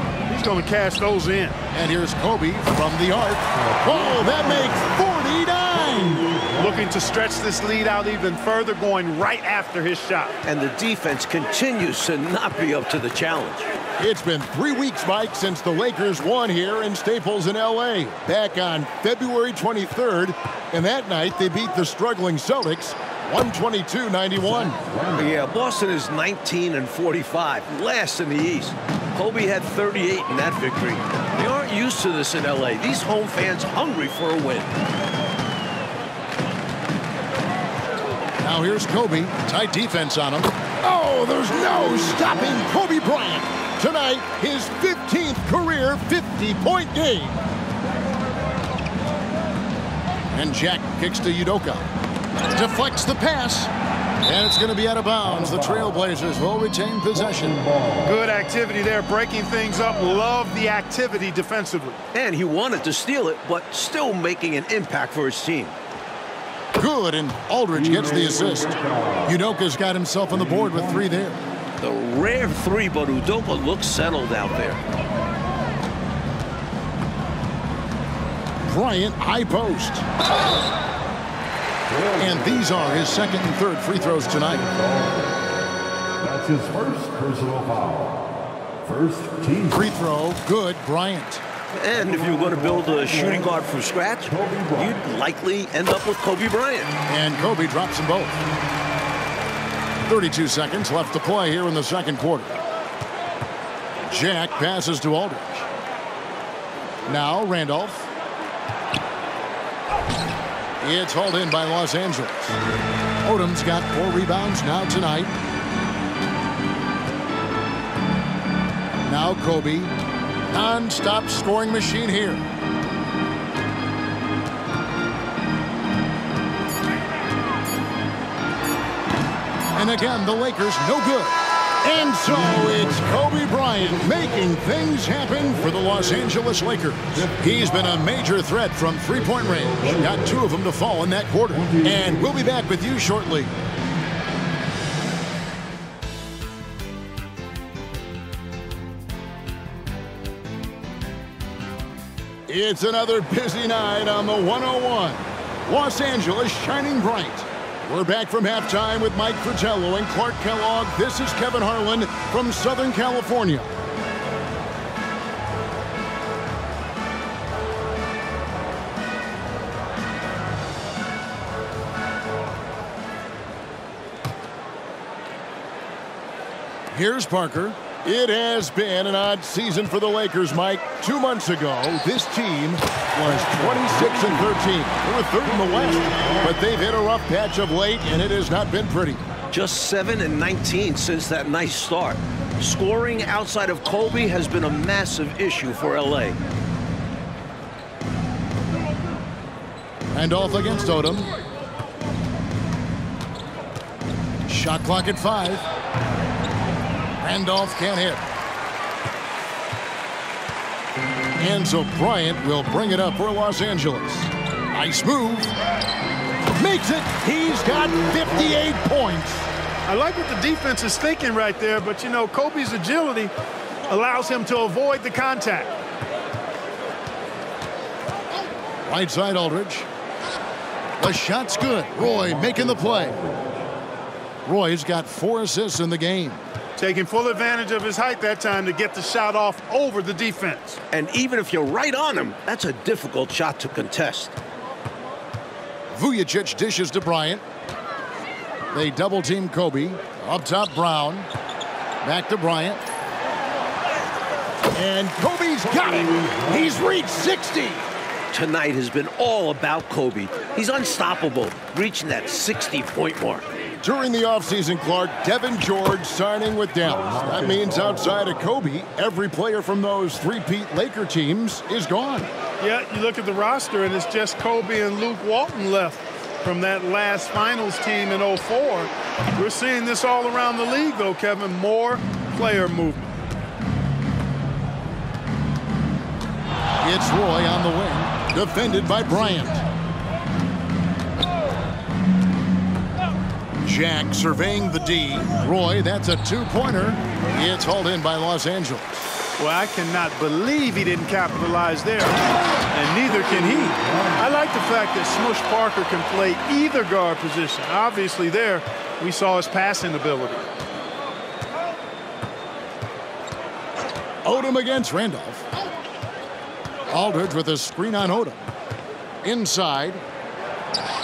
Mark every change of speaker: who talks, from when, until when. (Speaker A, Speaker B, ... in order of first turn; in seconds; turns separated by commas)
Speaker A: 0.3-1.6, Speaker B: 1.7-6.3, Speaker C: 3.9-4.6, Speaker A: 6.6-10.3, Speaker D: 10.4-13.7, Speaker B: 14.0-24.8, Speaker C: 24.4-25.4, Speaker D: 25.1-34.7, Speaker B: 38.4-47.4, Speaker B: 50.3-51.9, Speaker B: 52.5-53.7, Speaker B: 54.2-57.6, Speaker C: 55.2-55.9, Speaker C: 57.1-58.2, Speaker A: 58.0-62.0, Speaker D: 62.1-65.8, Speaker B: 66.8-71.4, Speaker C: 67.7-69.4, Speaker C: 70.3-71.1, Speaker D: 71.8-74.8, Speaker B: 78.7-80.1, Speaker C: 81.9-83.2, Speaker B: 82.2-84.7, Speaker C: 84.4-85.5, Speaker C: 86.2-88.3, Speaker C: 88.8-89.9, Speaker B: 89.7-91.4, Speaker D: 91.7-96.9, Speaker C: 92.1-93.5, Speaker C: 94.3-95.0, Speaker B: 97.1-98.4, Speaker B: 100.1-102.5, Speaker B: 104.0-105.7, Speaker B: 107.1-108.1, Speaker B: 110.8-112.6, Speaker B: 113.2-115.3, Speaker B: 119.0-119.9, Speaker B: 120.5-122.4, Speaker B: 129.8-143.5, Speaker C: 132.5-133.2, Speaker C: 137.2-137.5, Speaker C: 139.3-140.4, Speaker C: 141.5-142.3, Speaker B: 152.5-163.7, Speaker B: 176.9-189.2, Speaker C: 183.3-184.1, Speaker D: 189.5-196.4, Speaker B: 200.1-201.3, Speaker B: 204.5-205.7, Speaker B: 207.2-208.2, Speaker B: 211.4-215.5, Speaker B: 216.6-219.5, Speaker A: 219.9-223.3, Speaker A: 223.9-225.7, Speaker B: 228.9-229.9, Speaker B: 231.0-233.2, Speaker B: 234.4-236.5, Speaker A: 236.8-240.8, Speaker D: 240.9-244.4, Speaker B: 245.9-247.4, Speaker B: 248.7-251.3, Speaker B: 252.0-252.8, Speaker B: 254.7-257.8, Speaker D: 258.3-263.4, Speaker B: 263.8-272.3, Speaker C: 266.9-268.2, Speaker A: 272.6-283.1, Speaker B: 286.8-289.6, Speaker B: 293.6-299.1, Speaker A: 299.4-302.2, Speaker A: 302.7-310.4, Speaker B: 314.2-315.4, Speaker B: 316.9-318.4, Speaker B: 319.2-320.0